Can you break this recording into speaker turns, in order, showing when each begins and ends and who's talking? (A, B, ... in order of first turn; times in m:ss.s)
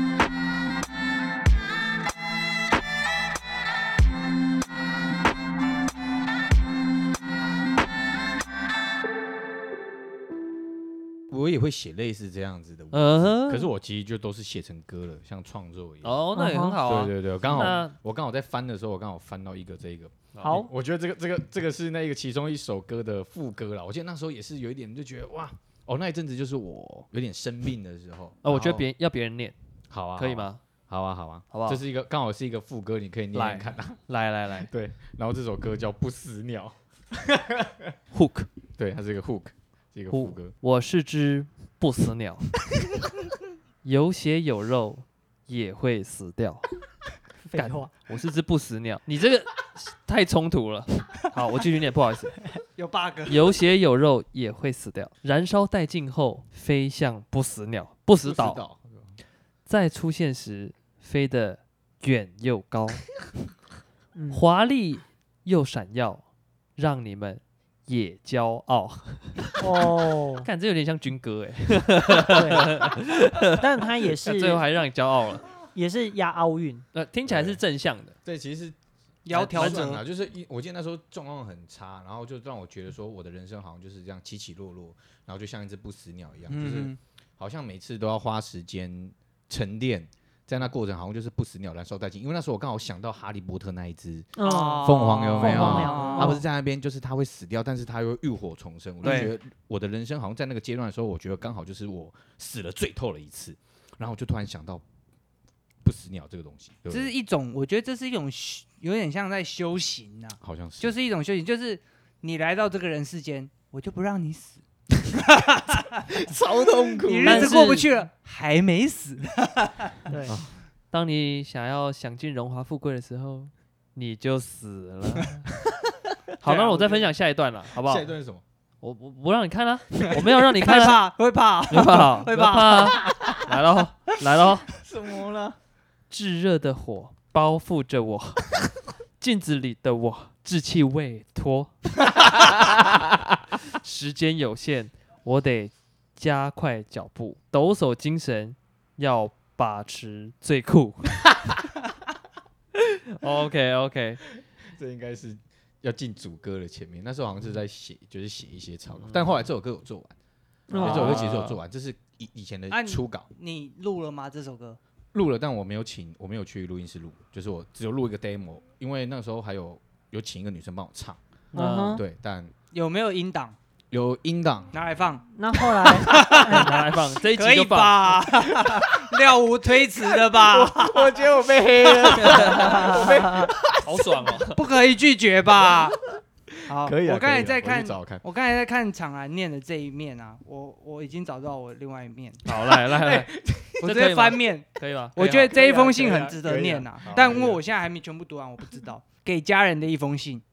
0:11.3-0:16.2 A
0:12.9-0:13.7 B
0:16.0-0:17.9 B
0:16.3-0:16.8 C
0:16.8-0:28.9 A
0:20.3-0:20.7 B
0:20.4-0:20.7 C
0:28.4-0:29.5 B
0:29.9-0:34.0 A
0:30.2-0:30.6 B
0:31.5-0:31.8 B
0:33.3-0:34.7 B
0:34.6-0:37.9 A
0:38.1-0:38.5 B
0:38.8-0:40.5 A
0:40.1-0:42.5 B
0:43.8-0:46.6 B
0:47.4-0:47.9 C
0:47.5-0:52.4 B
0:52.8-0:53.5 D
0:53.3-0:58.6 B
0:58.2-0:59.2 A
0:59.7-1:03.1 B
1:04.1-1:04.4 C
1:04.3-1:06.2 B
1:06.8-1:09.6 B
1:09.6-1:10.5 C
1:10.4-1:15.4 B
1:12.2-1:14.6 C
1:15.7-1:16.8 C
1:16.9-1:18.2 B
1:17.2-1:17.6 A
1:18.2-1:18.8 A
1:19.2-1:20.0 D
1:19.3-1:44.8 A
1:19.3-1:19.8 B
1:26.5-1:27.0 D
1:34.4-1:36.4 C
1:34.4-1:36.4 D
1:39.0-1:39.3 D
1:39.0-1:39.3 C
1:45.8-1:47.1 A
1:46.9-1:56.0 D
1:50.4-1:50.9 A
1:56.0-1:57.7 A
1:57.0-2:00.1 D
1:57.2-1:57.9 C
2:00.1-2:00.4 C
2:00.3-2:00.5 A
2:00.9-2:05.4 B
2:06.4-2:08.1 B
2:06.4-2:07.1 D
2:07.8-2:08.4 A
2:08.8-2:11.0 B
2:10.1-2:13.2 D
2:11.7-2:14.7 B
2:13.0-2:13.6 A
2:14.7-2:15.6 A
2:16.1-2:18.6 B
2:19.2-2:21.7 B
2:23.7-2:31.3 B
2:32.8-2:34.2 B
2:34.6-2:40.1 A
2:40.7-2:41.3 C
2:40.7-2:43.2 A
2:40.8-2:41.6 B
2:42.7-2:44.8 D
2:45.1-2:51.2 A
2:51.5-2:52.0 B
2:51.5-2:52.0 C
2:51.9-2:52.5 A
2:52.7-2:53.6 D
2:53.9-2:54.7 A
2:54.7-3:02.9 D
2:55.3-2:56.7 C
2:56.4-2:58.2 B
2:58.5-2:59.2 A
3:00.1-3:04.3 A
3:02.2-3:02.9 B
3:02.5-3:03.5 C
3:03.8-3:04.6 B
3:04.5-3:06.1 D
3:05.6-3:08.2 A
3:06.6-3:12.4 D
3:12.4-3:13.3 B
3:12.5-3:13.9 A
3:13.8-3:20.4 D
3:13.8-3:16.2 B
3:15.5-3:17.6 A